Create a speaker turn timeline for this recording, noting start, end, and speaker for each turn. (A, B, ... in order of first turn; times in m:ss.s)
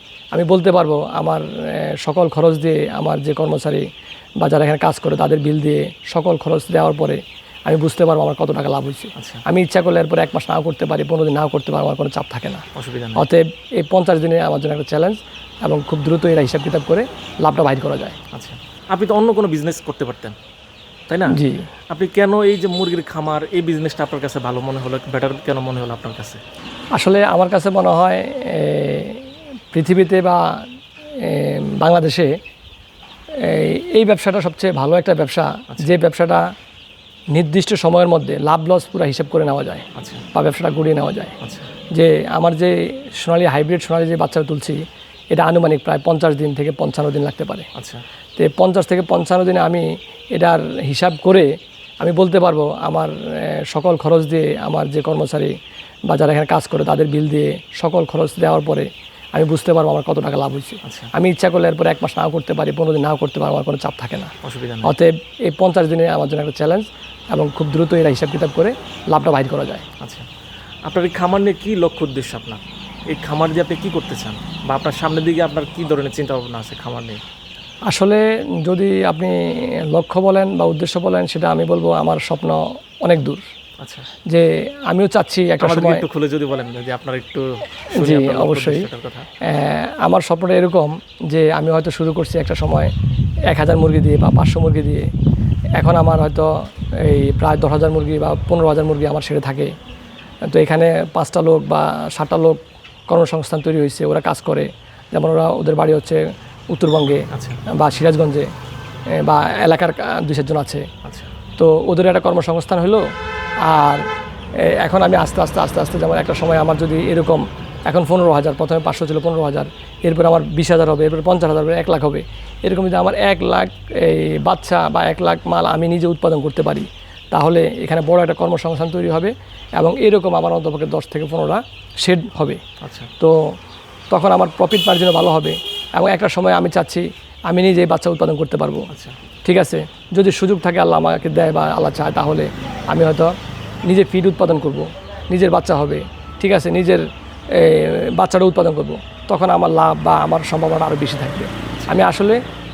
0:00.3-0:03.8 A
0:04.4-0:18.2 A
0:09.2-0:09.4 B
0:12.8-0:13.2 B
0:18.3-0:20.4 B
0:21.1-0:21.4 B
0:21.3-0:21.7 A
0:21.9-0:26.4 B
0:26.9-0:30.6 A
0:31.2-0:32.4 A
0:33.4-0:36.4 A
0:37.3-0:41.4 A
0:39.9-0:40.2 B
0:41.4-0:41.7 B
0:41.9-0:47.7 A
0:47.8-0:48.0 B
0:48.4-0:51.5 A
0:52.0-0:55.5 A
0:56.1-1:09.8 A
1:00.8-1:01.1 B
1:04.4-1:04.9 B
1:10.0-1:10.3 B
1:10.9-1:17.2 B
1:17.9-1:23.5 A
1:23.8-1:24.1 B
1:24.3-1:26.0 A
1:25.6-1:29.3 B
1:27.9-1:28.9 A
1:29.4-1:32.9 A
1:33.5-1:35.1 A
1:35.8-1:39.7 A
1:40.5-1:48.5 A
1:47.3-1:47.6 B
1:49.2-1:50.9 A
1:51.0-1:51.3 B
1:51.6-1:53.0 A
1:53.6-1:54.0 A
1:54.6-2:12.6 A
2:12.8-2:13.1 B
2:13.2-2:13.5 A
2:14.1-2:18.9 A
2:18.9-2:19.2 B
2:19.4-2:23.3 A
2:23.9-2:32.4 A